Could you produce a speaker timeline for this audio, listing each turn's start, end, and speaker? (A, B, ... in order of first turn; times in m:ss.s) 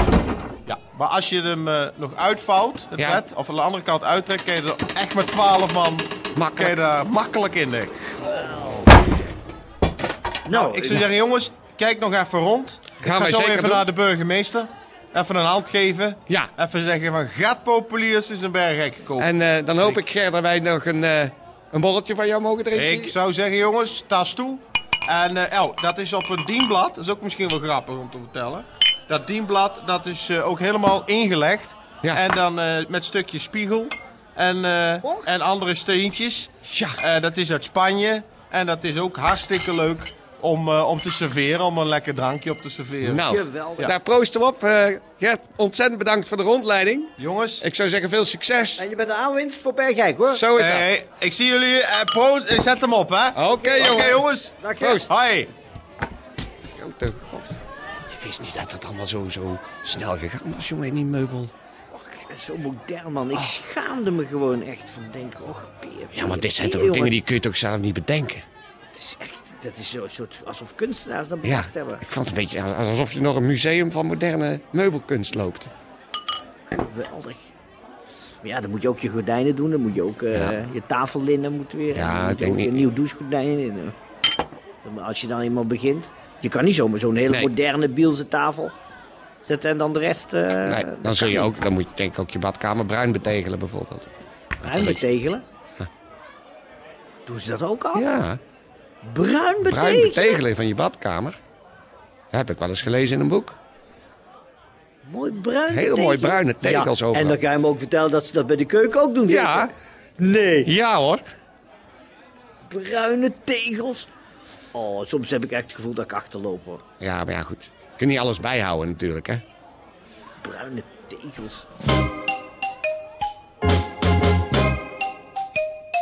0:00.6-0:08.0 A
0:03.0-0:03.2 B
0:06.3-0:06.7 B
0:10.4-0:11.0 C
0:10.5-0:20.0 A
0:13.0-0:13.8 B
0:19.2-0:23.1 B
0:22.7-0:43.2 A
0:36.7-0:37.0 B
0:43.0-0:48.8 B
0:43.2-0:43.9 C
0:47.2-0:47.6 A
0:48.8-0:50.4 C
0:50.3-0:50.9 B
0:50.6-0:54.5 A
0:53.3-0:54.3 B
0:53.6-0:54.0 C
0:54.6-0:55.1 C
0:54.8-0:55.1 B
0:55.0-0:55.5 A
0:56.7-0:57.6 B
0:58.1-1:01.5 B
1:01.9-1:07.2 C
1:06.1-1:08.4 B
1:08.9-1:12.0 C
1:11.4-1:15.7 B
1:16.7-1:17.5 C
1:18.4-1:23.9 C
1:21.9-1:22.9 B
1:24.8-1:28.7 C
1:29.4-1:31.5 C
1:30.6-1:34.1 B
1:34.6-1:35.4 C
1:34.6-1:35.0 B
1:37.2-1:38.0 C
1:37.9-1:38.4 B
1:39.0-1:40.4 C
1:39.6-1:41.4 B
1:42.3-1:43.6 B
1:45.0-1:50.7 C
1:45.7-1:47.4 B
1:49.3-1:49.7 B
1:50.6-1:51.2 B
1:52.6-1:54.1 C
1:54.7-1:56.8 C
1:57.0-1:59.4 B
2:00.4-2:01.6 C